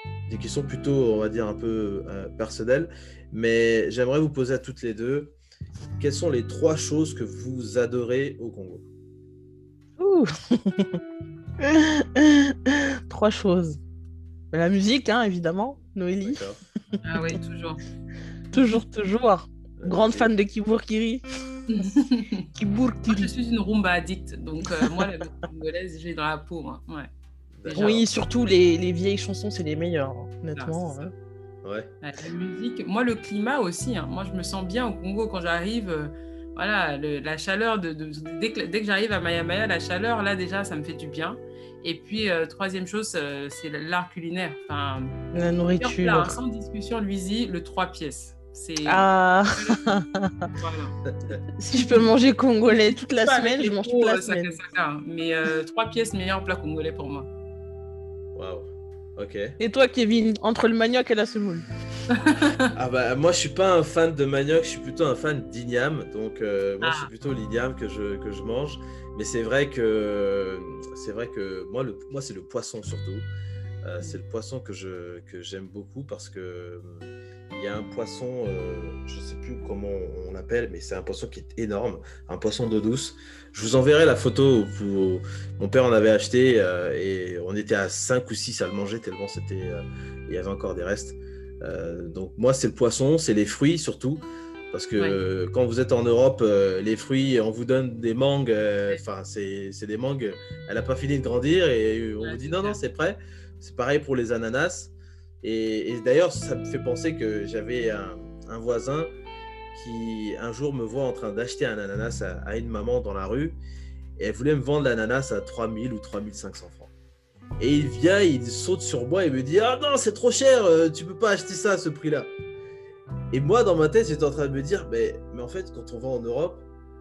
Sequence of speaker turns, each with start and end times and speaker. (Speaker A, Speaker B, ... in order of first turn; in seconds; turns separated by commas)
Speaker A: 0.3-5.3, Speaker A: 6.0-8.8, Speaker B: 10.0-11.0, Speaker B: 11.6-13.8, Speaker B: 14.5-16.4, Speaker A: 16.2-16.6, Speaker C: 17.0-17.8, Speaker B: 18.5-21.2, Speaker A: 19.8-20.3, Speaker C: 21.7-22.5, Speaker B: 22.5-23.3, Speaker C: 23.1-27.1, Speaker A: 27.6-27.9, Speaker C: 27.6-28.1, Speaker B: 27.8-31.1, Speaker C: 30.5-30.9, Speaker A: 31.6-31.9, Speaker C: 32.0-49.8, Speaker B: 45.3-46.4, Speaker B: 48.9-50.5, Speaker C: 50.5-51.0, Speaker B: 51.6-54.6, Speaker C: 52.8-57.3, Speaker A: 58.3-59.6, Speaker B: 59.6-61.7, Speaker C: 62.1-62.7, Speaker A: 62.7-73.3, Speaker C: 66.8-67.1, Speaker A: 73.8-109.1, Speaker C: 102.2-102.8, Speaker A: 109.7-113.6, Speaker A: 114.2-116.9, Speaker A: 117.6-122.3, Speaker A: 123.3-126.6